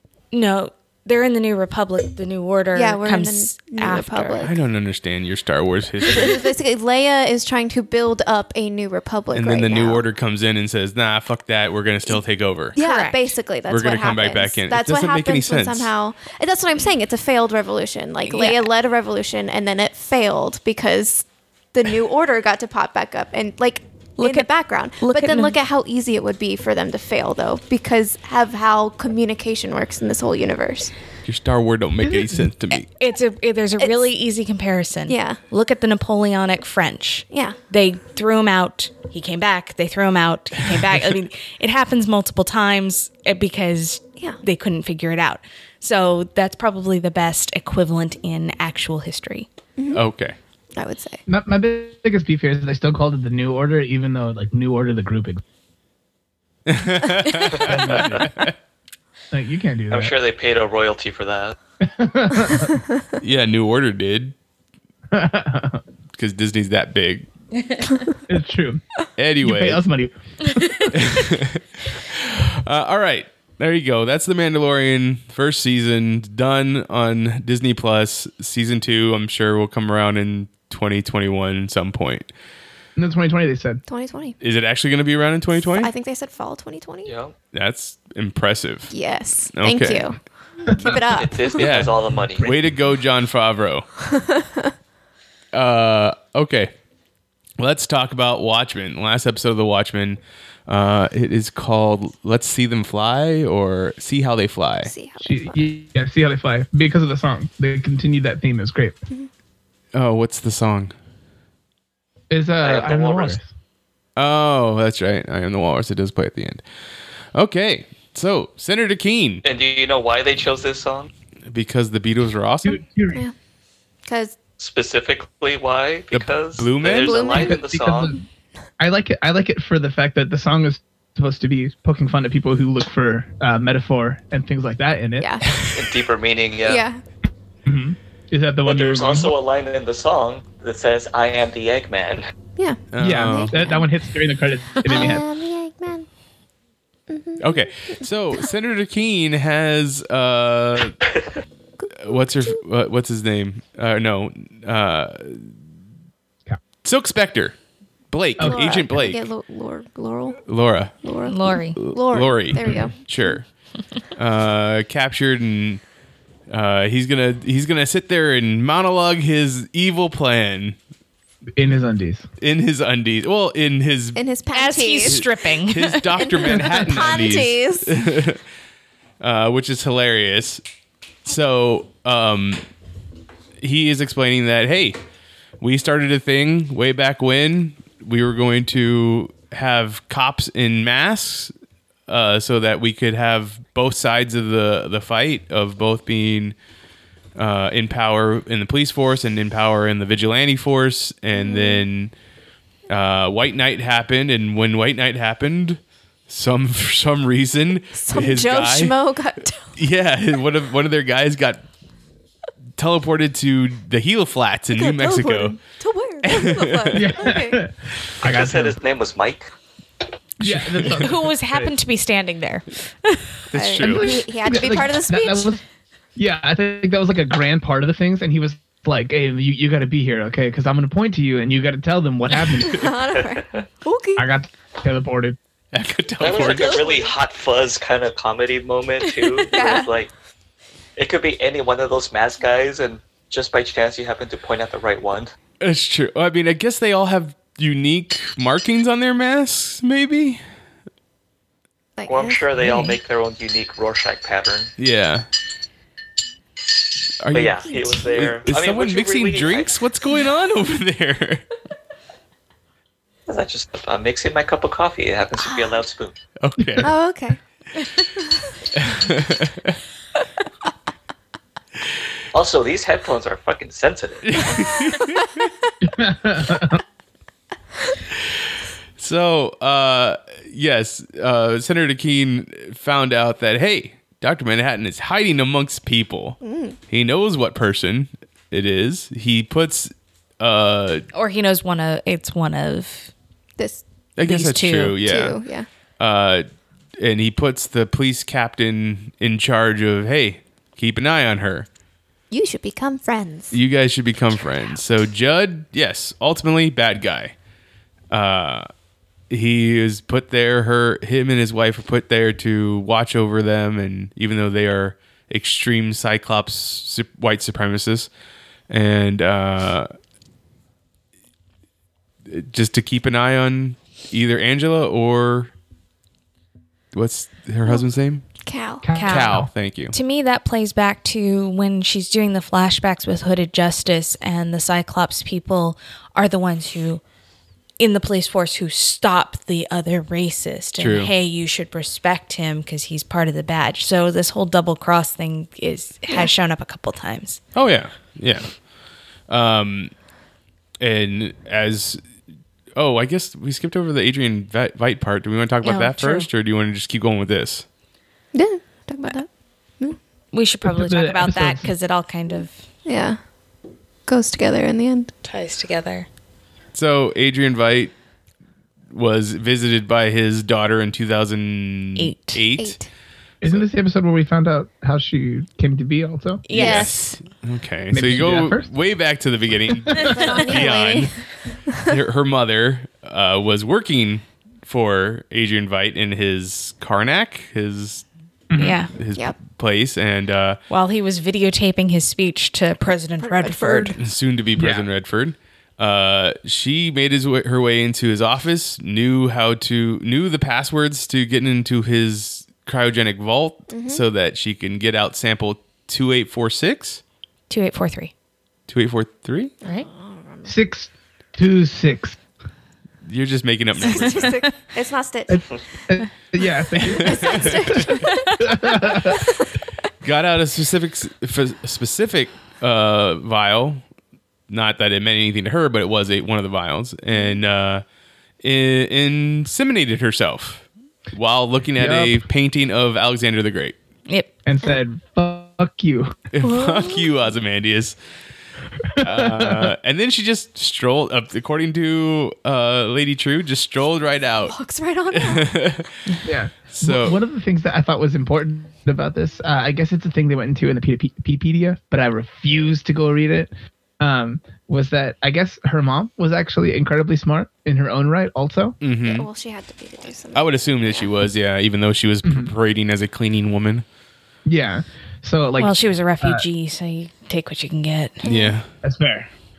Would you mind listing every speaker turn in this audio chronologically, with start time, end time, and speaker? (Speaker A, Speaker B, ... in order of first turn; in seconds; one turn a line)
Speaker A: 0.3-4.5
Speaker B: 2.7-4.5
Speaker C: 4.4-6.5
Speaker B: 6.1-10.1
Speaker C: 9.3-12.8
Speaker B: 12.8-30.9
Speaker A: 12.8-13.3
Speaker C: 13.7-15.9
Speaker A: 18.3-18.7
Speaker A: 24.2-24.5
Speaker A: 25.0-25.6
Speaker C: 31.2-32.9
Speaker D: 32.0-32.4
Speaker A: 32.7-49.5
Speaker B: 33.8-34.1
Speaker B: 35.1-35.4
Speaker B: 37.3-37.6
Speaker B: 49.8-50.0
Speaker C: 49.9-50.4
Speaker B: 50.8-51.2
Speaker D: 51.3-55.4
Speaker C: 56.7-58.5
Speaker D: 57.5-58.3
Speaker D: 59.3-60.1
Speaker E: 59.9-61.6
Speaker D: 61.8-62.8
Speaker C: 63.2-64.3
Speaker D: 65.1-65.8
Speaker C: 66.2-67.3
Speaker A: 67.6-67.9
Speaker D: 68.3-68.8
Speaker C: 69.2-69.8
Speaker D: 69.4-70.9
Speaker C: 70.9-82.3
Speaker D: 83.0-83.8
Speaker B: 83.9-84.4
Speaker C: 84.4-85.9
Speaker B: 85.6-87.1
Speaker E: 87.0-87.3
Speaker C: 87.5-88.9
Speaker B: 88.9-91.6
Speaker C: 89.5-90.1
Speaker D: 90.7-91.0
Speaker E: 90.8-92.5
Speaker C: 91.5-93.9
Speaker D: 92.2-92.5
Speaker B: 94.2-94.7
Speaker C: 95.5-96.7
Speaker C: 97.6-104.9
Speaker B: 104.8-105.6
Speaker D: 105.2-109.0
Speaker C: 109.9-110.9
Speaker D: 112.3-113.5
Speaker E: 112.6-113.4
Speaker C: 114.2-116.6
Speaker C: 117.3-119.4
Speaker E: 119.4-121.1
Speaker C: 121.5-122.8
Speaker D: 122.7-123.2
Speaker B: 124.1-124.3
Speaker E: 124.6-128.2
Speaker C: 126.1-127.3
Speaker B: 127.0-127.6
Speaker D: 127.4-128.2
Speaker D: 128.8-135.3
Speaker B: 135.2-135.5
Speaker E: 135.6-136.8
Speaker B: 136.7-137.0
Speaker D: 137.7-139.3
Speaker E: 138.7-142.3
Speaker B: 142.6-143.9
Speaker C: 142.9-143.6
Speaker D: 143.0-145.2
Speaker B: 144.8-146.1
Speaker B: 147.1-148.5
Speaker C: 147.4-151.0
Speaker E: 151.1-151.4
Speaker B: 151.8-152.5
Speaker C: 151.9-155.5
Speaker C: 156.8-157.6
Speaker C: 158.1-159.2
Speaker D: 158.4-158.7
Speaker B: 158.4-160.4
Speaker C: 160.5-160.9
Speaker B: 161.0-163.4
Speaker A: 161.2-161.8
Speaker C: 161.8-163.5
Speaker D: 162.6-162.9
Speaker C: 164.2-165.8
Speaker C: 166.5-170.8
Speaker D: 171.6-172.3
Speaker C: 172.4-174.2
Speaker B: 174.2-175.3
Speaker A: 174.5-176.4
Speaker C: 175.1-178.4
Speaker B: 176.2-178.0
Speaker D: 176.5-176.9
Speaker C: 179.2-180.6
Speaker C: 181.2-182.7
Speaker C: 183.6-185.0
Speaker C: 185.6-191.5
Speaker C: 192.1-196.6
Speaker C: 197.4-202.1
Speaker B: 201.3-201.9
Speaker C: 202.9-208.9
Speaker B: 207.9-209.8
Speaker C: 209.8-211.7
Speaker C: 212.8-215.6
Speaker B: 214.8-217.6
Speaker C: 216.2-217.1
Speaker D: 216.9-218.8
Speaker E: 218.2-219.5
Speaker C: 220.4-221.1
Speaker D: 220.4-221.7
Speaker A: 220.9-223.3
Speaker C: 223.5-224.1
Speaker B: 223.5-225.6
Speaker D: 223.8-225.6
Speaker D: 226.2-232.9
Speaker B: 232.6-234.3
Speaker D: 234.2-235.4
Speaker C: 235.7-236.9
Speaker E: 236.2-240.1
Speaker B: 236.2-237.1
Speaker A: 239.2-239.8
Speaker B: 239.5-239.9
Speaker E: 241.0-245.3
Speaker C: 245.6-250.4
Speaker B: 252.0-252.9
Speaker E: 252.1-254.7
Speaker A: 252.6-252.9
Speaker C: 254.8-255.3
Speaker C: 257.2-261.4
Speaker E: 257.3-259.8
Speaker E: 263.3-266.2
Speaker B: 265.4-265.8
Speaker C: 266.4-266.9
Speaker D: 266.6-266.9
Speaker B: 266.8-267.4
Speaker B: 268.1-268.5
Speaker C: 268.8-269.8
Speaker E: 272.3-274.6
Speaker C: 274.3-275.5
Speaker D: 275.8-276.8
Speaker C: 279.0-291.1
Speaker B: 286.4-286.8
Speaker A: 291.1-293.1
Speaker B: 293.6-293.8
Speaker C: 294.2-295.4
Speaker A: 294.2-295.0
Speaker B: 295.0-295.7
Speaker C: 296.0-296.5
Speaker C: 297.0-301.7
Speaker B: 302.3-303.6
Speaker C: 303.5-307.3
Speaker C: 308.1-308.7
Speaker C: 309.3-318.1
Speaker C: 318.7-319.9
Speaker C: 322.3-325.5
Speaker C: 326.9-328.2
Speaker B: 328.4-328.9
Speaker D: 328.8-329.5
Speaker A: 328.9-329.4
Speaker C: 329.0-329.9
Speaker A: 329.9-337.0
Speaker A: 337.8-347.4
Speaker C: 340.8-341.1
Speaker C: 347.5-348.6
Speaker C: 349.3-349.9
Speaker C: 350.8-352.0
Speaker C: 352.8-357.6
Speaker A: 355.6-356.3
Speaker B: 358.3-359.3
Speaker A: 360.3-362.6
Speaker D: 360.6-361.7
Speaker B: 362.9-363.2
Speaker B: 364.1-365.1
Speaker A: 365.2-366.1
Speaker C: 366.7-367.9
Speaker C: 368.9-372.8
Speaker A: 372.0-372.4
Speaker B: 372.6-372.9
Speaker D: 373.4-376.9
Speaker A: 376.5-377.2
Speaker C: 376.5-381.1
Speaker B: 376.6-376.9
Speaker D: 377.9-378.7
Speaker D: 379.9-380.1
Speaker B: 380.0-381.9
Speaker A: 380.1-380.6
Speaker C: 381.9-388.1
Speaker D: 388.5-388.8
Speaker A: 388.6-388.9
Speaker C: 388.9-390.6
Speaker A: 390.7-394.0
Speaker B: 393.2-394.0
Speaker C: 394.0-407.0
Speaker D: 394.6-394.9
Speaker B: 403.7-404.0
Speaker A: 407.5-408.1
Speaker C: 408.7-409.5
Speaker B: 409.6-410.6
Speaker D: 410.5-412.2
Speaker C: 413.1-414.4
Speaker B: 413.8-415.4
Speaker A: 414.0-414.4
Speaker D: 415.3-419.2
Speaker C: 416.8-418.0
Speaker B: 416.9-418.4
Speaker A: 418.1-418.4
Speaker B: 419.0-419.5
Speaker C: 420.0-423.8
Speaker C: 424.5-427.8
Speaker B: 427.1-427.4
Speaker C: 428.4-433.8
Speaker D: 431.8-432.2
Speaker D: 434.4-436.2
Speaker C: 436.3-438.0
Speaker B: 436.4-437.1
Speaker D: 438.9-439.7
Speaker C: 439.0-444.6
Speaker B: 444.5-445.5
Speaker C: 445.1-446.1
Speaker D: 446.2-458.8
Speaker C: 446.7-447.2
Speaker C: 458.8-459.3
Speaker B: 459.0-461.1
Speaker C: 460.3-463.9
Speaker D: 462.2-462.5
Speaker D: 464.5-466.4
Speaker A: 465.6-468.3
Speaker B: 468.2-468.6
Speaker C: 468.2-468.7
Speaker D: 468.8-469.3